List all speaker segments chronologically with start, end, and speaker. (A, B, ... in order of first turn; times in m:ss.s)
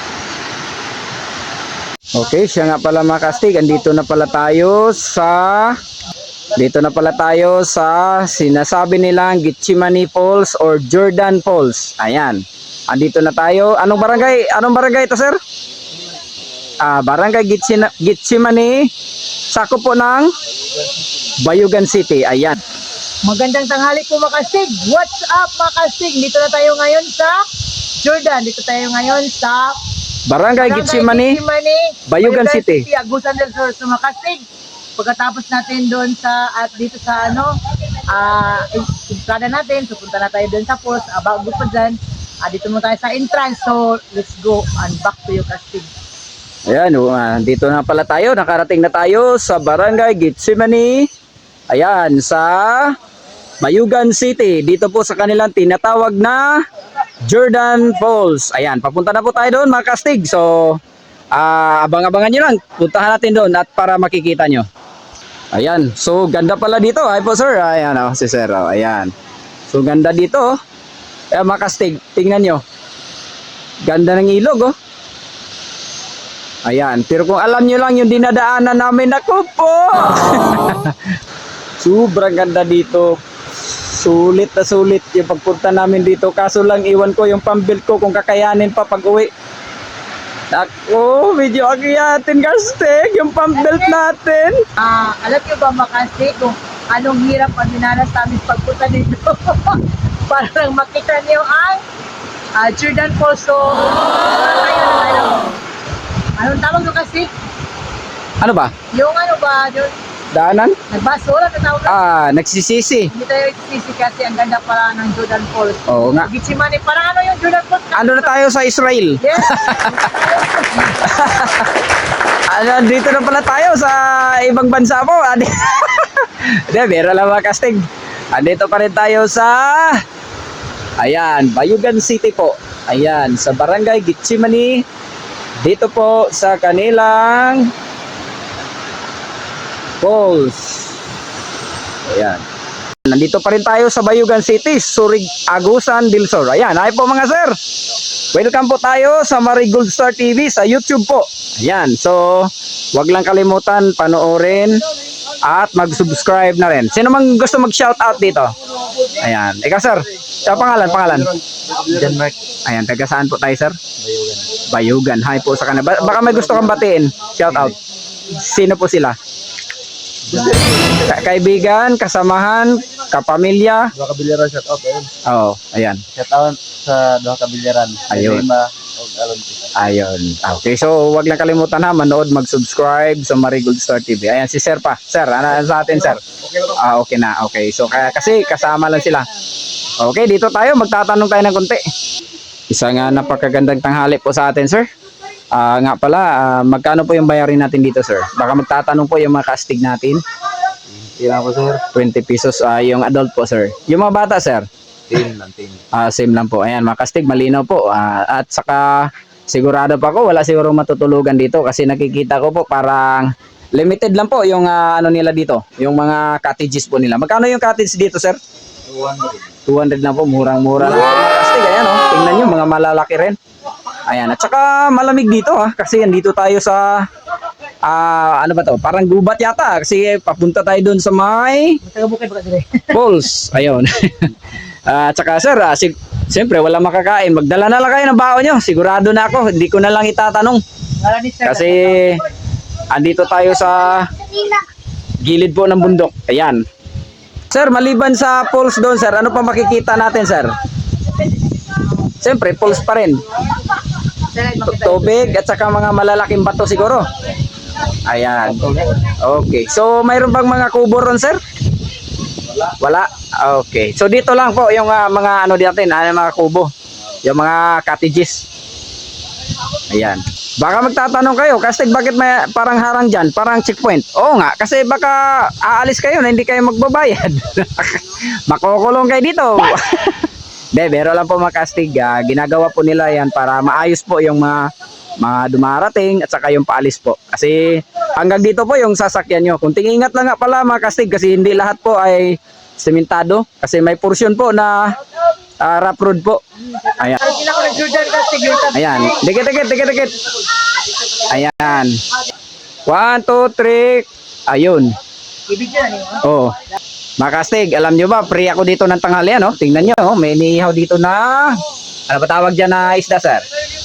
0:02.1-0:05.8 A
0:06.5-0:15.4 A
0:16.8-0:18.9 A
0:19.5-0:20.3 A
0:21.4-0:22.6 A
0:23.2-0:27.4 B
0:28.0-0:29.8 B
0:30.2-0:31.4 A
0:30.6-0:34.4 B
0:32.1-0:32.9 A
0:35.0-0:37.5 B
0:38.1-0:45.9 B
0:46.7-0:51.1 A
0:51.7-0:52.9 A
0:53.6-0:56.6 A
0:57.2-1:00.8 A
1:01.3-1:04.7 A
1:05.5-1:09.1 A
1:09.7-1:10.5 A
1:11.3-1:12.6 A
1:13.8-1:14.7 A
1:16.7-1:21.1 A
1:21.8-1:29.3 A
1:30.5-1:34.6 A
1:33.6-1:34.0 B
1:34.8-1:41.8 B
1:42.6-1:45.6 B
1:46.4-1:47.3 B
1:48.4-1:48.7 A
1:48.9-1:49.9 B
1:50.3-1:50.8 A
1:50.8-1:52.0 B
1:51.9-1:53.1 A
1:53.1-1:58.4 B
1:55.9-1:56.3 A
1:57.9-2:00.0 A
1:59.2-2:01.4 B
2:01.0-2:01.7 A
2:02.5-2:07.8 A
2:08.3-2:10.0 A
2:11.0-2:14.8 A
2:15.6-2:17.7 A
2:20.0-2:20.9 A
2:22.1-2:22.4 A
2:23.0-2:27.6 A
2:28.3-2:34.8 A
2:35.4-2:38.5 A
2:39.2-2:41.3 A
2:41.7-2:42.3 C
2:42.6-2:43.8 A
2:44.1-2:44.4 C
2:44.5-2:49.2 A
2:50.9-2:53.9 A
2:54.0-2:55.1 C
2:55.2-2:56.0 A
2:56.1-2:59.7 C
2:58.1-2:58.5 A
2:59.8-3:09.3 A
3:10.0-3:11.8 A
3:12.7-3:14.9 A
3:15.5-3:20.2 A
3:20.9-3:21.8 C
3:21.8-3:24.7 A
3:25.1-3:25.8 C
3:25.9-3:38.4 A
3:39.0-3:39.4 C
3:39.7-3:43.4 A
3:44.1-3:47.1 A
3:47.8-3:51.8 A
3:51.8-3:53.0 B
3:52.9-3:54.3 A
3:54.9-4:00.6 A
4:01.0-4:02.1 B
4:01.4-4:02.2 A
4:02.9-4:04.1 A
4:05.2-4:06.6 A
4:07.5-4:10.5 A
4:12.2-4:13.2 A
4:14.3-4:15.4 B
4:14.6-4:17.1 A
4:17.9-4:21.4 A
4:22.7-4:26.7 A
4:27.2-4:28.4 A
4:29.9-4:44.7 A
4:45.2-4:55.0 A
4:55.6-4:56.4 A
4:57.0-4:57.4 A
4:57.0-4:59.2 B
4:58.7-5:00.2 A
5:01.2-5:02.0 A
5:02.9-5:04.9 A
5:05.5-5:06.2 B
5:06.2-5:06.6 A
5:07.2-5:13.4 A